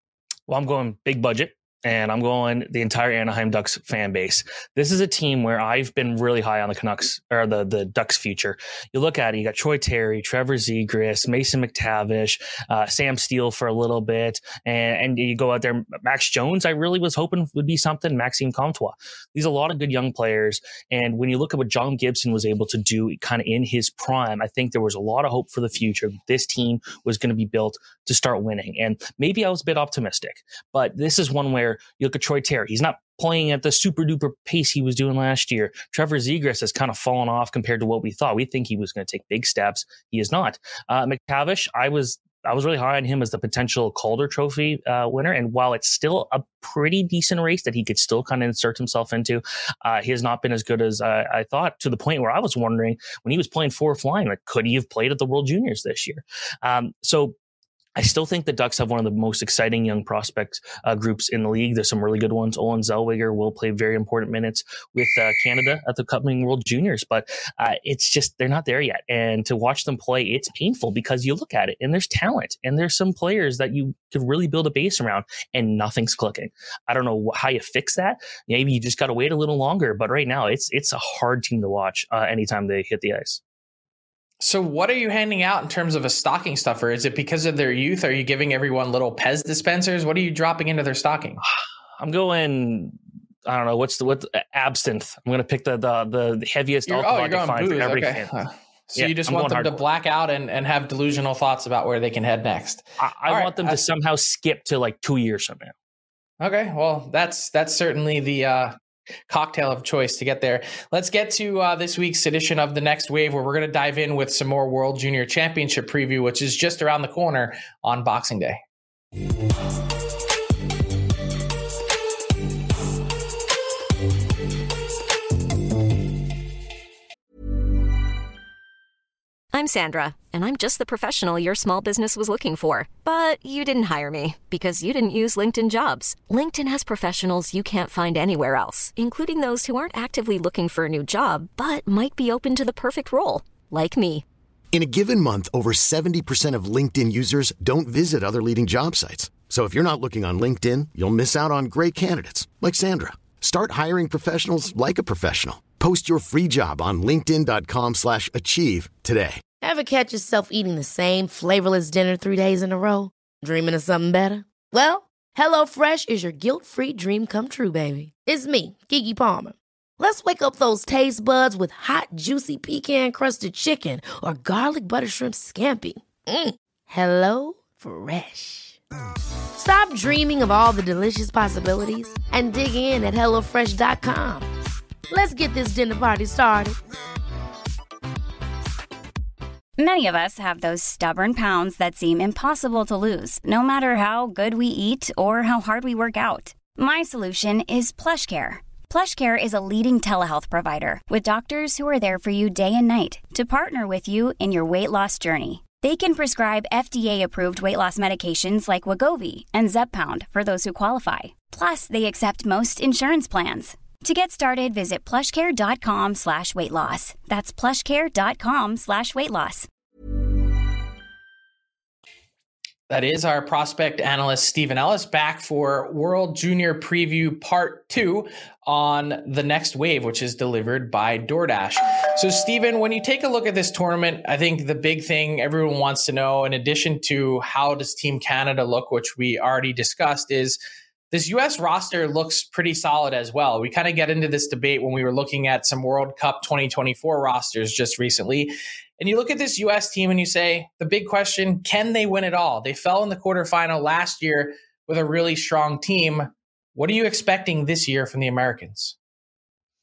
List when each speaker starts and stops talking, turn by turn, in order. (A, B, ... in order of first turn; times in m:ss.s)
0:00.5-0:57.3 A
0:58.0-1:23.4 A
1:24.4-1:31.4 B
1:32.0-1:38.3 A
1:36.9-1:43.8 B
1:38.9-1:39.8 A
1:43.0-1:45.7 A
1:46.4-1:48.7 B
1:49.3-1:58.6 B
2:09.5-2:24.2 C
2:24.7-2:39.4 D
2:39.6-2:58.8 E
2:59.5-3:04.5 E
3:05.1-3:06.8 E
3:09.8-3:39.7 F
3:42.9-4:00.6 B
4:01.1-4:19.0 B